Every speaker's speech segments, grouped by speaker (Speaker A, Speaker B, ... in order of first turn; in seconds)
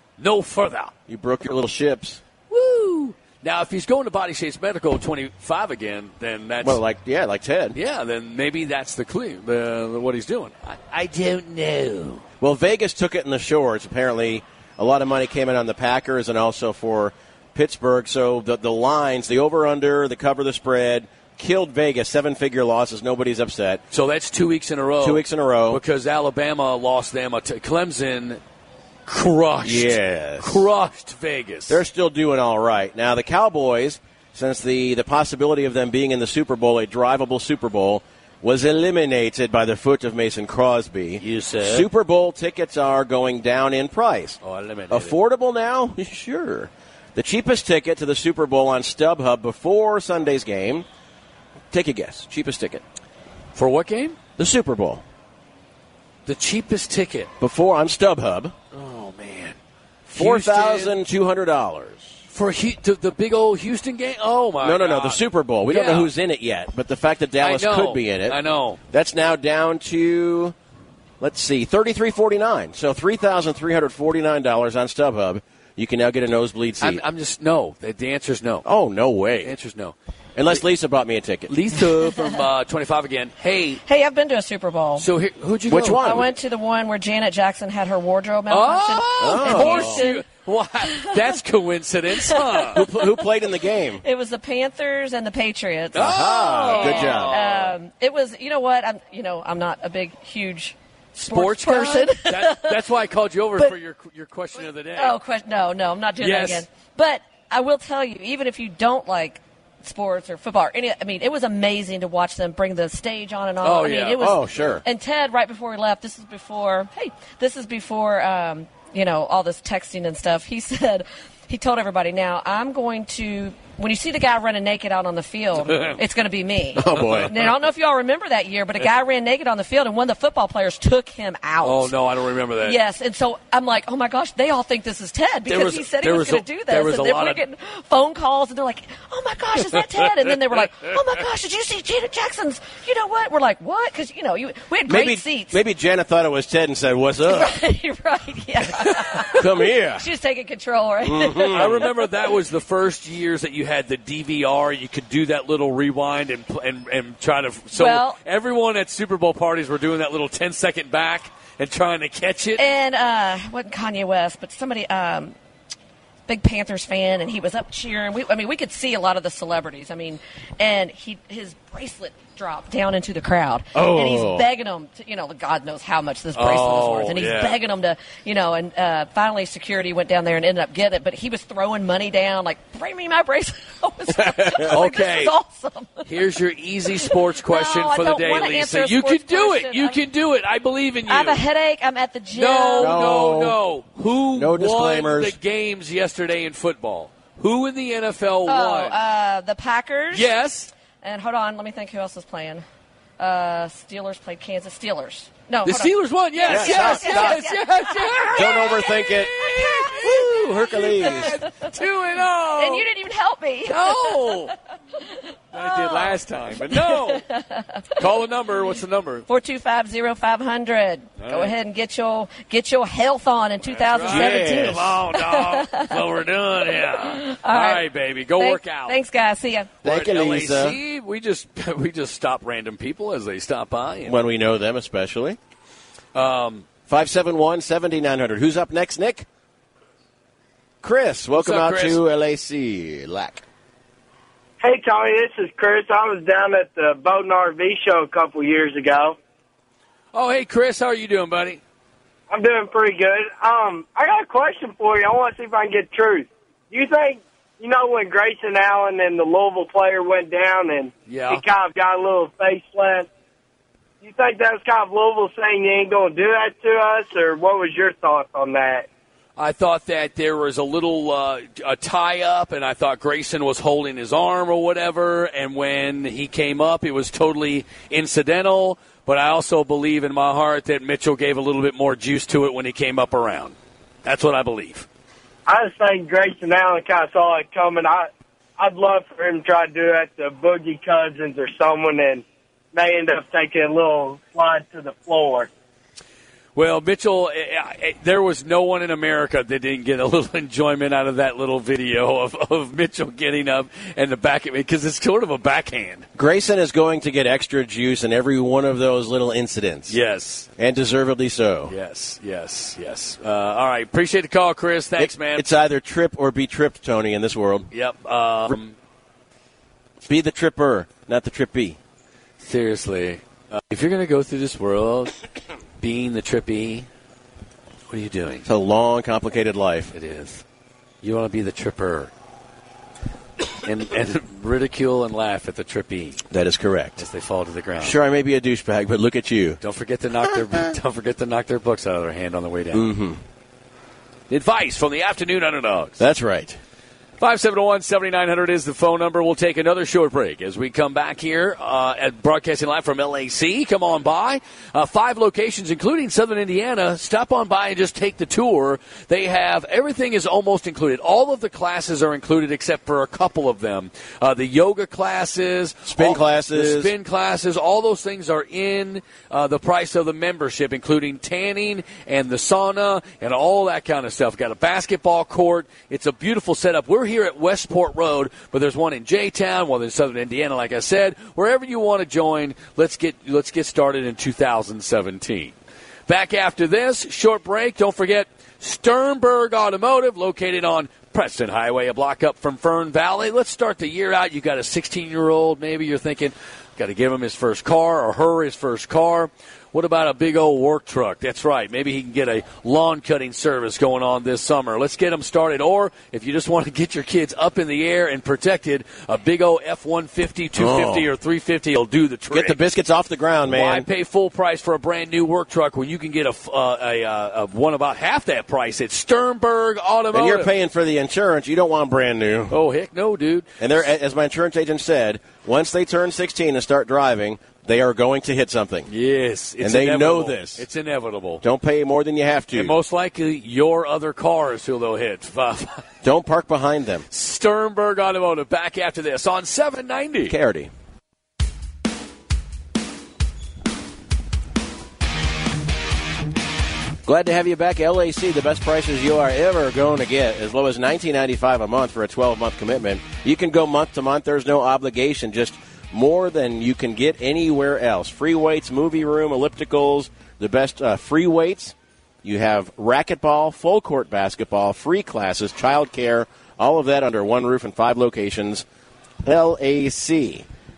Speaker A: 0.2-0.9, 2.5-6.8, 7.7-12.2, 23.9-28.4, 29.1-31.8, 41.2-41.9, 44.4-45.1, 53.5-54.2, 56.2-57.3, 58.7-61.0, 62.3-66.1, 67.4-68.8, 76.8-78.6, 79.4-79.9, 81.5-83.8, 85.0-86.2, 88.5-92.9, 95.9-97.8, 101.2-105.2, 106.2-106.6, 113.6-114.7, 125.6-126.0, 126.9-127.3, 131.6-132.8, 135.5-137.4, 151.5-162.6, 176.3-177.6, 184.7-185.3, 186.1-191.4, 192.3-199.0, 200.1-200.7, 205.6-212.8, 213.7-214.5, 215.5-217.2, 218.0-219.2, 221.2-221.5, 223.6-229.0, 229.8-234.2, 236.1-236.7, 241.3-242.0, 250.1-251.6, 261.1-261.4, 269.4-284.9, 296.5-306.1, 309.9-310.5, 311.7-315.4, 317.7-318.8, 322.4-325.2, 325.8-326.9, 327.9-328.4, 329.9-330.4, 331.0-332.1, 333.6-336.2, 337.0-338.0, 339.6-342.9, 344.3-346.0, 347.2-385.5, 386.1-412.6, 413.5-420.5, 422.5-423.8, 428.9-431.4, 432.5-435.8, 437.1-440.4
Speaker B: 1.1-2.2, 6.6-7.8, 12.4-23.8, 25.0-25.8, 29.6-30.6, 31.7-44.4, 44.9-50.8, 51.7-52.8, 54.4-55.0, 57.4-58.5, 60.1-62.1, 64.6-68.4, 68.9-70.5, 71.2-77.0, 78.6-79.5, 80.3-81.5, 85.7-86.3, 89.2-90.0, 92.7-94.0, 96.0-97.3, 114.2-114.8, 126.8-127.3, 144.9-147.5, 149.4-150.0, 151.0-151.8, 173.8-174.4, 184.3-184.7, 192.8-193.6, 194.3-195.4, 206.5-207.4, 208.3-209.3, 210.0-211.3, 224.0-225.0, 229.8-230.8, 234.1-235.4, 236.9-239.2, 240.8-243.4, 306.1-309.9, 310.6-311.7, 315.0-317.7, 320.0-321.8, 328.4-329.9, 336.3-337.0, 337.8-339.6, 342.7-343.2, 346.0-346.6, 365.9-366.9, 410.6-411.1, 412.3-413.9, 420.1-422.6, 423.6-428.9, 429.6-430.6, 431.4-432.7, 436.0-437.0, 440.3-440.7, 447.0-468.6, 469.2-470.4
Speaker C: 82.0-82.4, 83.8-85.1, 85.9-90.2, 90.8-91.4, 92.1-93.2, 94.0-102.8, 105.0-131.9, 132.6-145.6, 147.2-152.1, 157.7-158.2, 162.6-165.3, 166.3-190.0, 191.1-193.0, 198.4-200.3, 201.0-202.6, 203.2-211.7, 212.5-214.5, 215.1-217.8, 219.3-226.0, 226.7-229.8
Speaker D: 244.6-249.2, 252.3-263.1, 264.0-268.9, 285.4-295.5